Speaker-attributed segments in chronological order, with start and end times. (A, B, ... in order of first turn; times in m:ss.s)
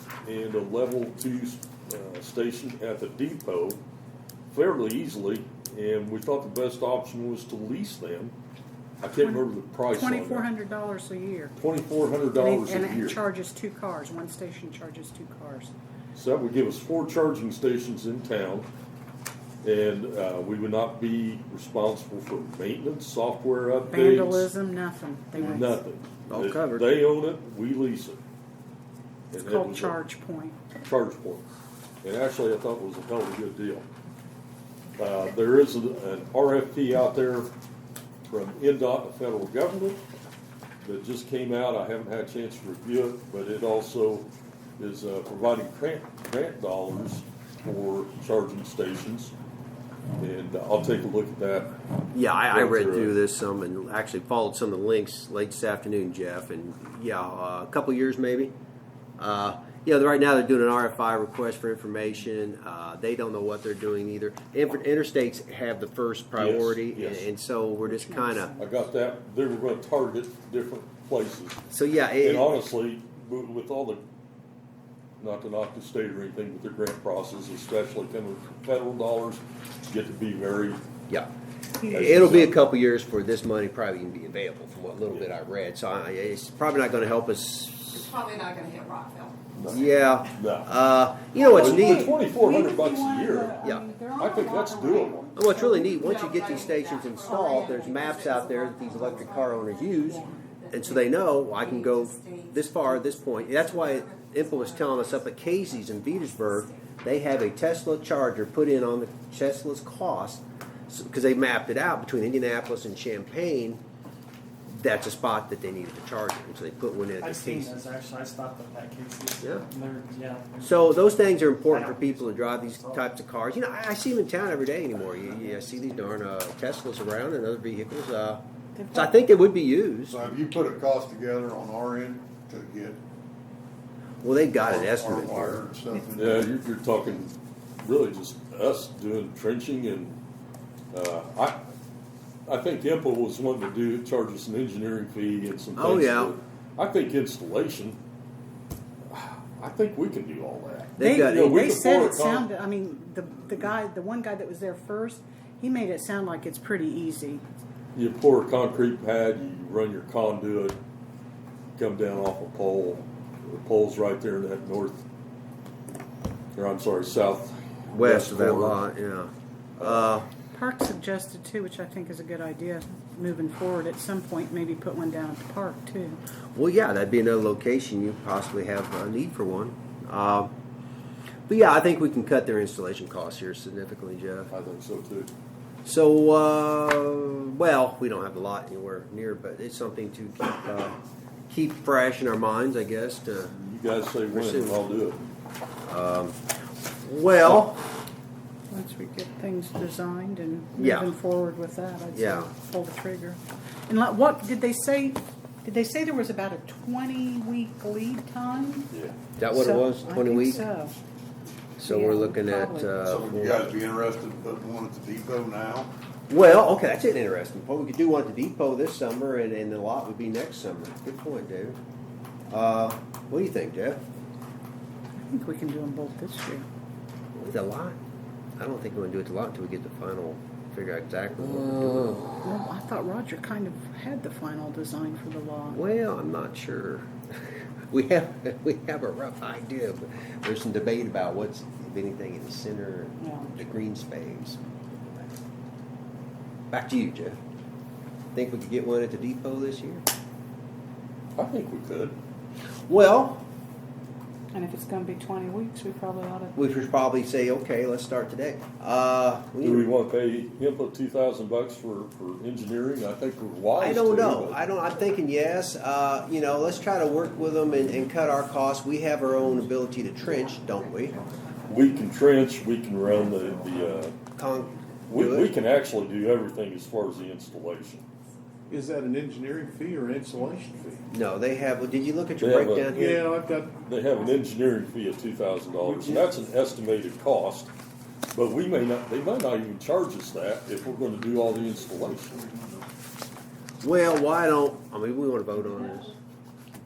0:00.2-0:03.8 A
0:04.5-0:08.3 A
0:09.0-0:10.5 A
0:09.2-0:11.6 B
0:11.6-0:13.2 A
0:12.3-0:15.7 B
0:16.1-0:18.7 A
0:19.6-0:24.5 A
0:23.9-0:25.8 B
0:25.3-0:28.2 A
0:26.3-0:26.9 C
0:29.3-0:30.0 A
0:29.4-0:30.6 B
0:30.7-0:31.4 A
0:32.0-0:33.8 A
0:35.0-0:37.5 A
0:38.3-0:40.0 A
0:40.8-0:44.3 A
0:44.8-0:49.3 A
0:50.2-0:51.8 A
0:52.1-0:58.5 C
0:52.5-0:53.1 A
0:59.2-1:08.5 C
1:06.4-1:07.3 A
1:07.9-1:08.7 B
1:08.6-1:11.6 A
1:11.7-1:12.5 C
1:12.2-1:14.0 A
1:15.2-1:20.8 A
1:21.8-1:28.1 C
1:21.9-1:22.5 A
1:28.0-1:29.4 D
1:29.6-1:30.7 A
1:29.7-1:32.1 C
1:31.4-1:36.6 B
1:31.5-1:35.3 A
1:35.3-1:53.8 C
1:36.0-1:46.8 D
1:37.2-1:37.8 B
1:40.1-1:40.3 B
1:54.7-1:57.8 C
1:57.2-2:03.1 E
1:59.4-1:59.7 C
2:00.6-2:08.4 C
2:05.1-2:06.2 E
2:08.8-2:09.1 B
2:08.9-2:10.2 C
2:10.1-2:13.0 F
2:14.2-2:15.6 C
2:14.6-2:16.5 F
2:16.1-2:20.2 A
2:20.9-2:21.6 A
2:22.5-2:28.0 A
2:25.7-2:26.3 C
2:29.1-2:32.5 A
2:31.0-2:31.6 C
2:31.0-2:37.4 B
2:37.9-2:40.8 A
2:41.8-2:45.0 A
2:46.6-2:48.8 A
2:47.9-2:50.3 C
2:49.8-2:50.0 A
2:50.5-2:56.2 B
2:56.5-3:00.5 C
3:01.5-3:04.5 C
3:04.5-3:05.3 A
3:05.8-3:13.6 C
3:13.5-3:15.3 A
3:14.3-3:14.8 C
3:15.9-3:16.4 C
3:17.0-3:17.8 C
3:18.7-3:28.9 B
3:20.8-3:21.1 C
3:22.1-3:22.5 C
3:28.9-3:29.2 A
3:29.4-3:30.6 C
3:29.5-3:30.9 B
3:31.8-3:33.7 C
3:31.8-3:33.0 B
3:33.0-3:35.9 F
3:36.3-3:41.8 C
3:42.5-3:44.0 C
3:45.2-3:46.7 B
3:47.3-3:48.0 C
3:48.6-3:52.4 C
3:52.4-3:55.8 B
3:55.7-4:05.3 C
4:03.2-4:03.5 B
4:06.7-4:07.4 C
4:08.3-4:10.0 C
4:11.4-4:12.2 A
4:12.9-4:13.4 C
4:14.5-4:16.6 B
4:16.5-4:19.9 C
4:19.6-4:24.6 A
4:23.8-4:31.2 C
4:30.9-4:31.6 D
4:31.6-4:34.2 A
4:34.4-4:35.5 C
4:35.1-4:38.0 A
4:38.7-4:41.0 G
4:40.3-4:41.2 D
4:41.1-4:43.3 C
4:42.4-4:43.2 A
4:42.9-4:43.7 G
4:43.8-4:47.7 A
4:48.3-4:52.4 A
4:53.8-4:56.1 C